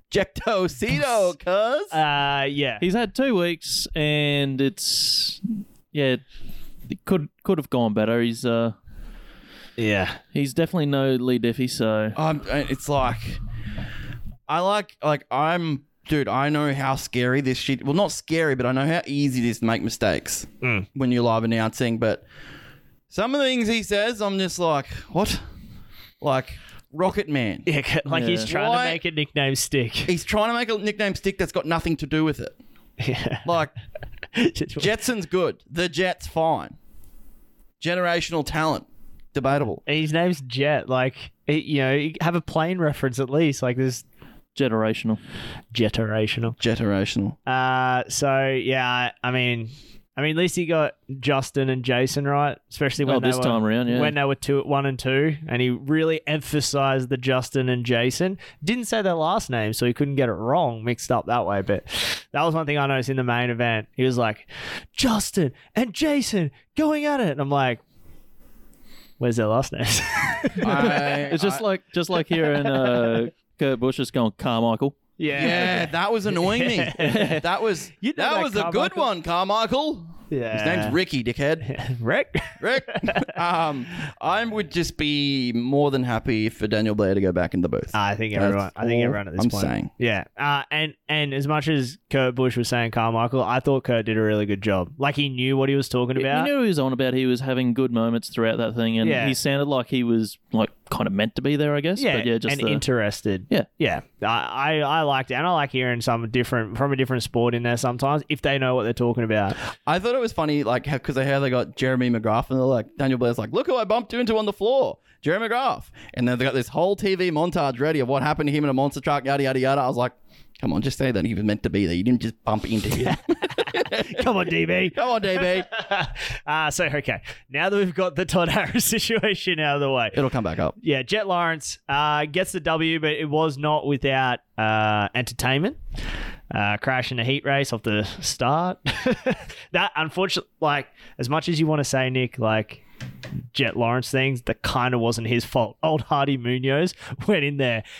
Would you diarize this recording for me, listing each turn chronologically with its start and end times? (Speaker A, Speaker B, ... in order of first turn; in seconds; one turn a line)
Speaker A: 0.1-1.9
Speaker B: 0.9-1.3
Speaker B: 1.9-2.8
Speaker C: 2.8-5.4
Speaker C: 5.9-6.2
Speaker C: 6.9-8.7
Speaker B: 9.8-10.2
Speaker C: 10.3-12.2
Speaker A: 12.1-13.4
Speaker A: 14.5-22.2
Speaker B: 20.6-20.9
Speaker A: 23.1-25.4
Speaker A: 26.2-27.7
Speaker B: 27.6-30.1
Speaker C: 28.1-28.5
Speaker A: 28.5-29.0
Speaker A: 30.1-32.6
Speaker B: 33.0-33.5
Speaker A: 33.4-33.7
Speaker B: 34.3-34.9
Speaker A: 34.8-36.8
Speaker A: 37.8-39.8
Speaker B: 39.9-44.0
Speaker C: 44.5-45.2
Speaker B: 45.7-46.5
Speaker A: 46.6-47.4
Speaker B: 47.5-67.8
Speaker C: 53.0-54.1
Speaker B: 69.2-71.0
Speaker A: 70.6-71.6
Speaker C: 70.7-75.6
Speaker B: 75.2-77.4
Speaker A: 75.3-81.7
Speaker C: 77.0-77.4
Speaker B: 78.0-79.1
Speaker B: 80.3-81.0
Speaker B: 81.6-83.3
Speaker A: 82.6-89.9
Speaker B: 87.9-96.5
Speaker C: 96.2-102.8
Speaker B: 99.0-99.3
Speaker B: 102.0-109.6
Speaker A: 109.8-125.7
Speaker B: 123.0-130.2
Speaker A: 130.1-130.8
Speaker B: 130.8-135.8
Speaker B: 136.5-142.8
Speaker B: 143.5-147.8